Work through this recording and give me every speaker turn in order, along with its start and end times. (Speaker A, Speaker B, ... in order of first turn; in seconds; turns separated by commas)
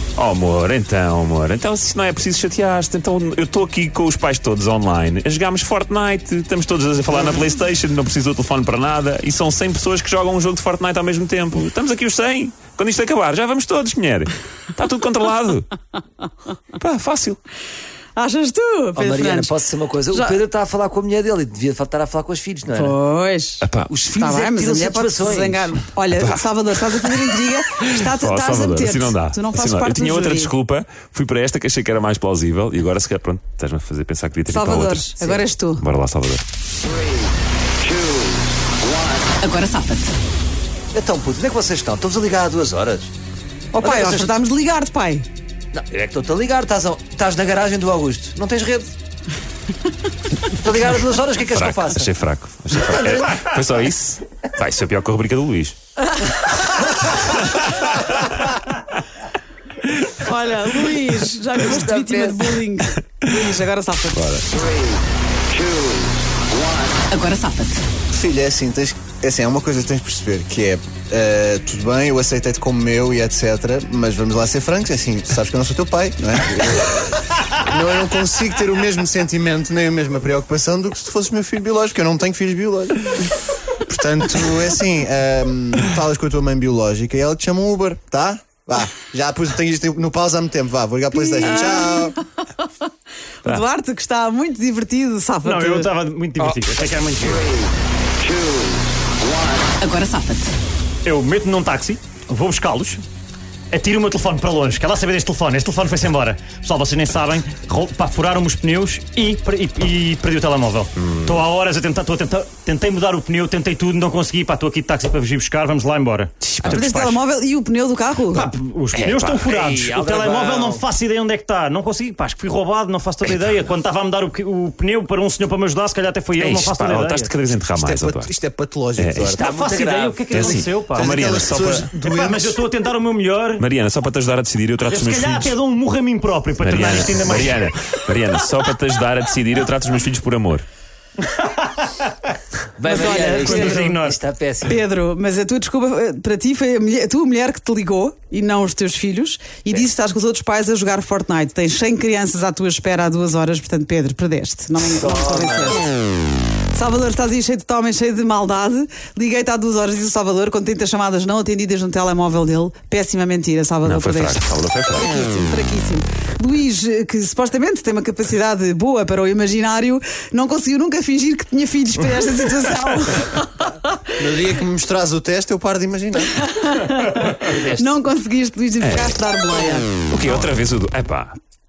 Speaker A: 0.2-15.8, Speaker A: 16.8-17.4, Speaker B: 18.2-19.5, Speaker C: 19.0-22.9, Speaker B: 20.1-20.4, Speaker B: 22.7-30.5, Speaker A: 23.6-23.9, Speaker C: 23.9-25.8, Speaker A: 26.1-35.1, Speaker B: 34.5-35.8, Speaker A: 35.8-36.4, Speaker B: 39.4-40.1, Speaker C: 40.9-43.1, Speaker B: 43.7-45.3, Speaker C: 43.8-44.4, Speaker C: 45.7-48.9, Speaker C: 50.5-52.1, Speaker A: 51.4-55.8, Speaker C: 52.9-53.2, Speaker A: 57.2-58.4, Speaker B: 60.1-64.4, Speaker C: 61.6-62.5, Speaker A: 64.2-64.5, Speaker B: 67.1-67.8, Speaker D: 68.1-83.3, Speaker D: 83.9-92.2, Speaker B: 91.3-92.2, Speaker B: 93.4-95.9, Speaker E: 95.4-97.6, Speaker B: 99.8-100.5, Speaker E: 101.0-103.0, Speaker E: 103.7-117.2, Speaker A: 111.0-111.4, Speaker B: 116.6-118.5, Speaker E: 118.3-127.3, Speaker A: 118.9-119.5, Speaker C: 119.4-120.8, Speaker A: 123.2-123.7, Speaker A: 126.4-128.3, Speaker D: 127.7-129.4, Speaker A: 129.0-129.3, Speaker C: 129.2-130.5, Speaker E: 129.4-133.6, Speaker A: 130.3-131.9, Speaker D: 130.9-132.6, Speaker A: 133.6-135.6, Speaker E: 134.9-137.7, Speaker A: 136.6-140.7, Speaker E: 141.4-141.7, Speaker C: 142.8-144.8, Speaker E: 142.8-144.2, Speaker B: 142.9-143.9, Speaker B: 144.6-155.9, Speaker C: 154.9-155.8, Speaker B: 156.7-174.1, Speaker A: 163.8-165.2, Speaker D: 174.2-176.4, Speaker B: 176.3-179.9, Speaker C: 177.4-177.9, Speaker A: 178.8-179.2, Speaker A: 180.1-181.4